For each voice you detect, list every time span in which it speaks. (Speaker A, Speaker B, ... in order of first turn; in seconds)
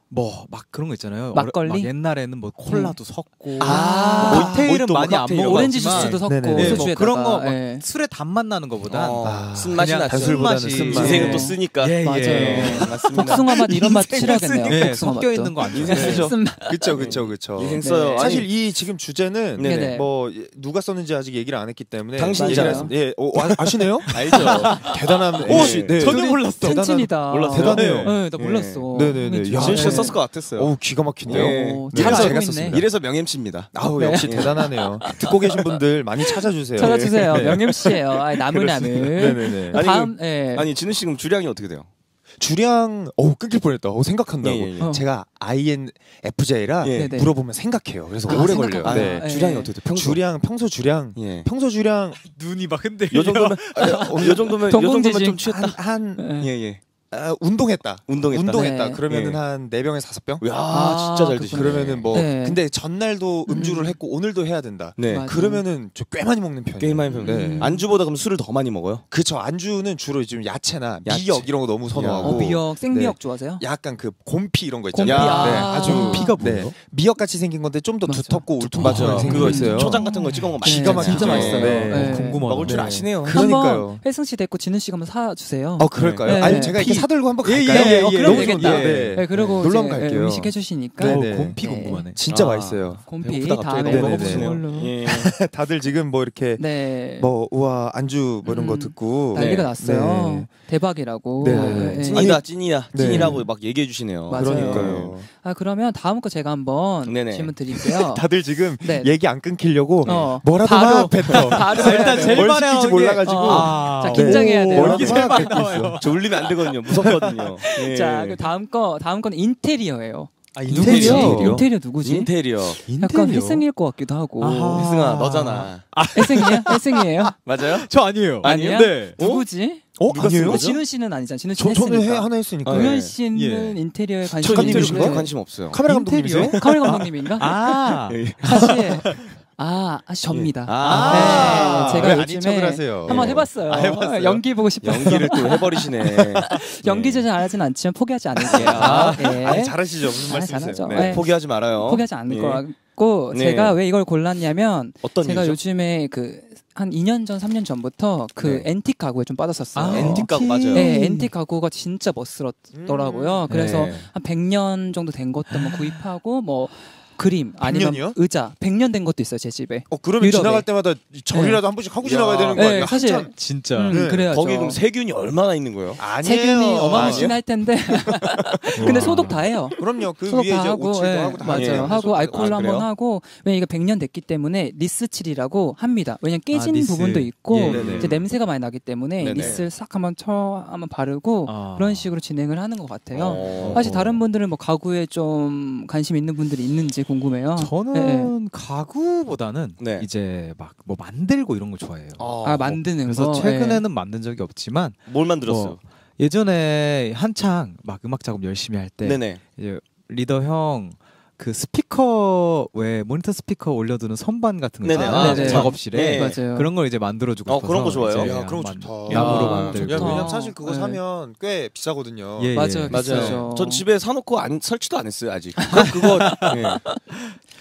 Speaker A: 0.1-16.3, 24.1-26.9, 27.7-28.1, 52.2-54.4, 75.4-76.7, 78.8-79.7, 81.0-83.0, 87.4-89.2, 91.0-92.2, 111.7-117.6, 120.5-121.6, 122.8-123.7, 124.4-129.2, 133.3-133.8, 134.6-135.0, 135.7-138.2, 140.8-142.2, 148.7-149.4, 159.8-161.3, 163.5-163.9, 165.5-166.0, 173.3-174.0, 178.8-179.5, 186.5-188.1, 191.5-192.1, 193.4-194.2, 197.6-202.3, 202.8-220.3, 222.4-223.4, 225.7-226.6
Speaker B: 1.3-1.9, 2.7-3.0, 3.6-4.7, 5.4-7.8, 10.9-17.0, 17.7-18.5, 19.6-20.1, 22.3-22.9, 26.1-30.2, 31.3-32.8, 33.9-35.5, 36.8-40.7, 44.8-45.1, 46.9-47.3, 48.3-49.7, 54.7-56.5, 58.5-59.0, 60.7-62.6, 63.5-64.0, 65.1-65.7, 67.1-67.8, 72.2-73.7, 74.9-76.3, 78.0-82.5, 83.2-87.1, 87.7-92.1, 93.1-95.0, 96.6-97.3, 98.5-102.4, 103.0-103.5, 104.3-108.3, 108.8-109.1, 110.0-112.5, 113.2-115.5, 117.6-122.3, 123.0-125.0, 126.1-127.4, 128.4-135.3, 136.6-137.5, 138.4-170.7, 171.3-171.6, 172.5-174.8, 176.2-198.3, 202.4-203.8, 215.1-216.7, 219.1-221.0, 222.5-223.9, 225.6-227.0
Speaker C: 3.6-3.9, 6.2-6.9, 9.2-11.5, 12.6-12.8, 15.9-28.2, 28.9-32.9, 33.7-37.7, 39.1-39.8, 42.4-49.3, 49.9-52.2, 53.8-54.5, 55.3-56.3, 57.1-60.5, 61.5-67.8, 69.1-80.0, 80.6-84.0, 85.8-93.1, 93.8-100.5, 101.4-103.5, 104.3-105.3, 107.8-116.0, 120.8-121.7, 130.0-130.8, 131.6-133.1, 134.4-136.6, 140.9-144.4, 148.6-151.2, 162.7-163.4, 167.6-168.2, 169.9-174.3, 176.0-177.3, 178.8-182.4, 187.7-188.1, 215.0-215.6, 218.1-222.5
Speaker D: 4.2-6.9, 8.9-14.9, 15.7-16.4, 16.9-18.5, 19.6-19.9, 22.2-22.9, 24.1-24.9, 25.4-26.2, 27.3-35.7, 36.8-41.9, 44.4-44.9, 46.8-47.2, 48.2-50.2, 51.2-51.5, 53.1-55.7, 56.4-56.8, 58.1-59.4, 60.4-62.2, 65.0-65.3, 66.8-69.0, 71.0-72.6, 75.0-75.7, 78.8-83.5, 86.0-86.9, 89.3-89.6, 92.3-95.3, 99.3-99.7, 101.4-105.2, 107.0-107.6, 110.0-110.3, 111.3-112.2, 114.8-115.5, 116.0-118.4, 120.7-121.4, 122.0-122.8, 124.7-125.9, 127.5-127.9, 128.4-129.4, 130.1-130.7, 132.6-133.1, 134.4-135.8, 136.4-136.7, 137.9-139.3, 140.3-142.0, 143.1-144.0, 144.8-147.2, 148.5-149.2, 150.8-152.6, 153.3-153.8, 155.0-155.6, 158.4-158.7, 159.9-160.9, 163.5-164.1, 172.0-172.9, 174.3-176.0, 176.9-177.4, 177.9-178.6, 181.4-182.9, 187.7-188.1, 189.2-189.7, 193.1-193.9, 199.8-200.1, 202.2-202.8, 205.1-205.8, 209.0-209.4, 214.8-216.4, 217.5-218.4, 219.1-220.1, 222.9-226.8